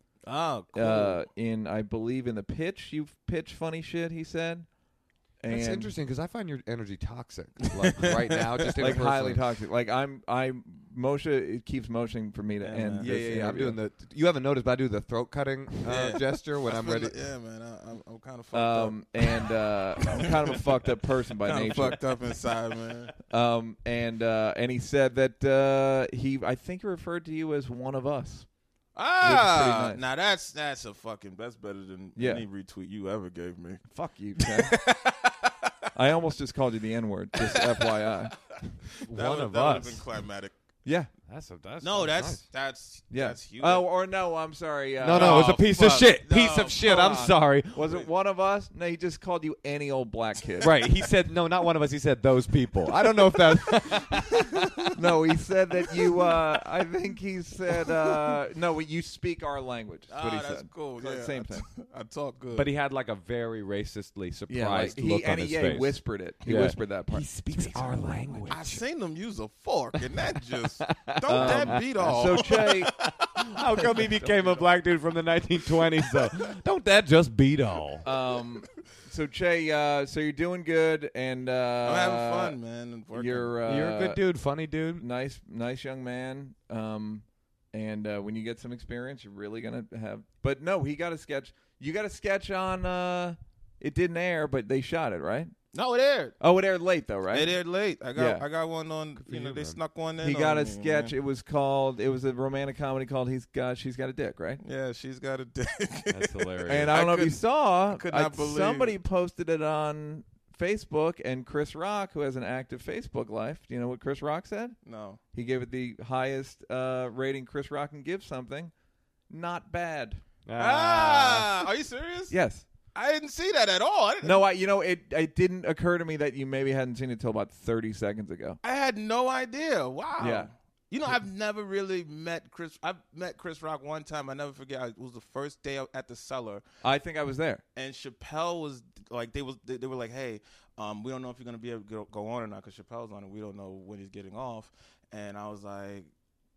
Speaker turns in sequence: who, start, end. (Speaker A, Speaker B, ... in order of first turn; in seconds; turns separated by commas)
Speaker A: 0.2-1.2, Speaker B: 0.7-4.7, Speaker B: 5.4-5.9, Speaker C: 5.5-9.4, Speaker A: 7.7-8.9, Speaker B: 8.8-13.8, Speaker A: 12.6-13.2, Speaker C: 13.0-17.1, Speaker A: 15.8-19.2, Speaker B: 18.5-22.0, Speaker A: 20.2-20.6, Speaker A: 21.4-23.1, Speaker B: 23.3-28.5, Speaker A: 28.9-33.8, Speaker B: 29.2-30.0, Speaker B: 32.1-32.4, Speaker B: 33.9-34.8, Speaker A: 34.4-35.7, Speaker B: 35.9-38.4, Speaker A: 37.4-38.0, Speaker C: 39.0-40.0, Speaker A: 39.0-40.5, Speaker B: 40.8-41.1, Speaker C: 41.2-42.4, Speaker A: 41.8-43.9, Speaker B: 43.1-45.8, Speaker C: 45.0-47.9, Speaker A: 45.0-47.1, Speaker B: 46.8-50.8, Speaker C: 50.6-54.8, Speaker B: 54.9-61.6, Speaker A: 60.1-62.7, Speaker C: 62.5-68.8, Speaker B: 64.5-68.5, Speaker A: 68.5-72.8, Speaker C: 70.8-78.0, Speaker B: 71.3-72.9, Speaker B: 74.0-74.7, Speaker B: 78.0-82.5, Speaker A: 81.8-83.6, Speaker B: 83.1-84.2, Speaker C: 83.7-85.0, Speaker B: 85.0-95.5, Speaker A: 95.7-96.3, Speaker B: 96.4-97.5, Speaker A: 97.3-101.1, Speaker B: 98.1-98.4, Speaker C: 99.2-99.8, Speaker B: 100.2-104.6, Speaker A: 104.6-109.0, Speaker C: 106.1-107.0, Speaker B: 106.7-114.8, Speaker A: 114.8-115.2, Speaker B: 115.3-118.7, Speaker B: 119.3-120.2, Speaker C: 120.5-121.7, Speaker A: 120.6-122.3, Speaker B: 122.3-122.7, Speaker A: 122.9-124.4, Speaker B: 124.2-128.6, Speaker A: 128.6-136.6, Speaker B: 130.2-130.5, Speaker B: 136.8-137.6, Speaker A: 137.8-146.1